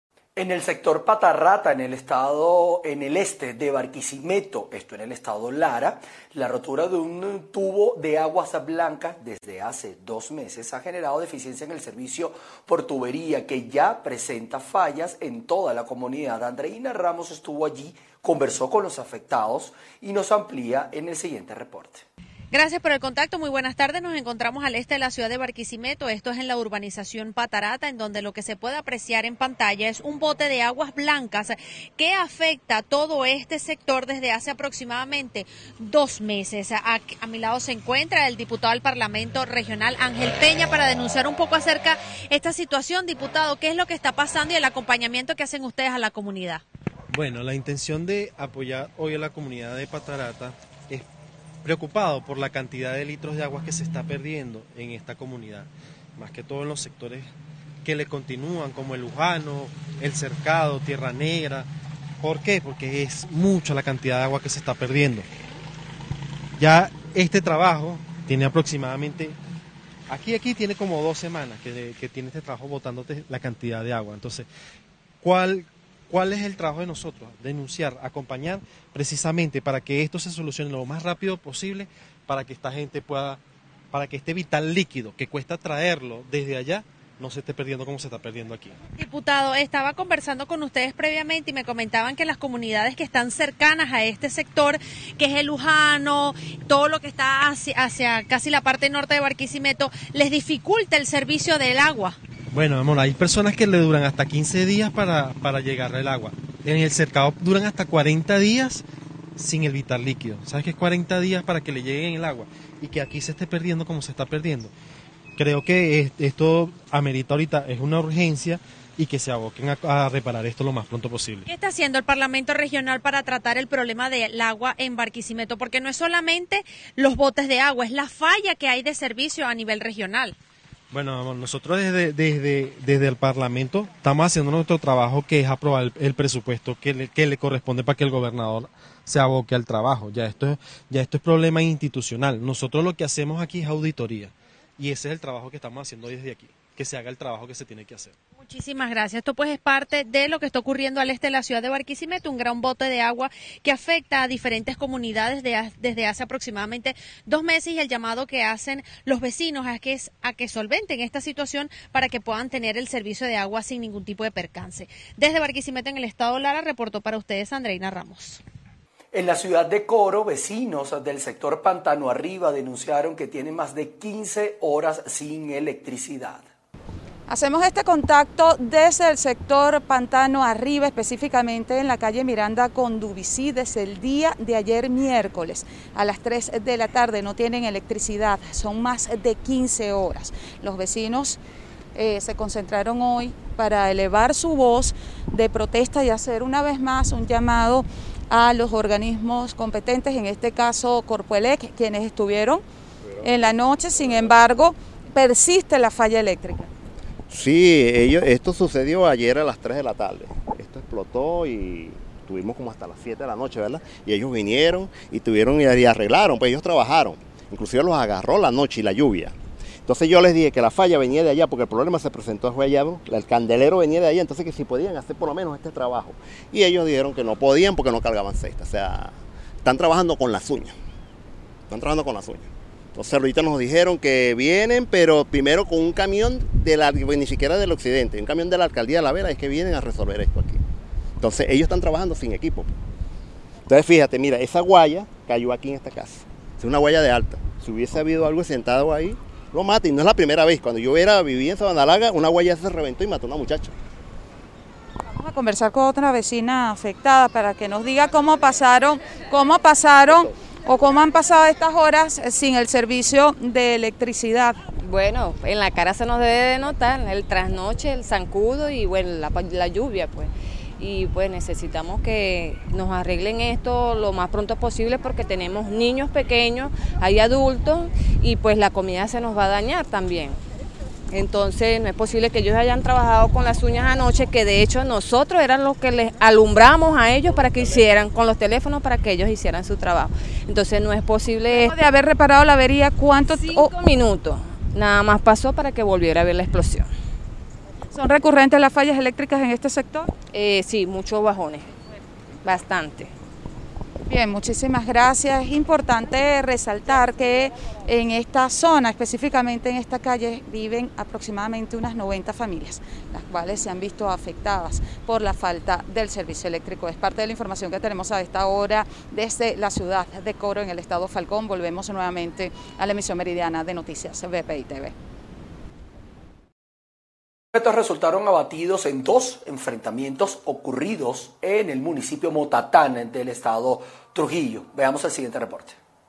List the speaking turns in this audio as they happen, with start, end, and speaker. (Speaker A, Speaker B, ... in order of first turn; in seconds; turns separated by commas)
Speaker A: 0.3-22.0, Speaker B: 22.5-46.6, Speaker C: 47.1-51.0, Speaker C: 51.6-57.3, Speaker C: 57.8-61.7, Speaker C: 62.2-65.3, Speaker C: 66.6-69.4, Speaker C: 70.1-74.5, Speaker C: 75.2-83.4, Speaker C: 83.9-88.8, Speaker B: 89.0-102.2, Speaker C: 102.5-108.8, Speaker C: 109.4-114.7, Speaker C: 115.3-121.5, Speaker B: 121.5-130.3, Speaker C: 130.9-148.1, Speaker B: 148.4-168.4, Speaker A: 169.1-176.4, Speaker D: 177.3-191.4, Speaker D: 191.9-202.6, Speaker D: 203.2-206.7, Speaker E: 207.3-219.3, Speaker E: 219.8-230.7, Speaker E: 231.7-240.6, Speaker E: 241.2-242.7, Speaker E: 243.7-253.7, Speaker D: 255.2-264.6, Speaker F: 264.8-280.4, Speaker F: 281.1-291.7, Speaker D: 291.5-293.7, Speaker F: 293.3-296.9, Speaker D: 297.9-300.1, Speaker F: 300.3-301.7, Speaker F: 302.4-303.1, Speaker D: 304.1-324.9, Speaker A: 327.5-335.8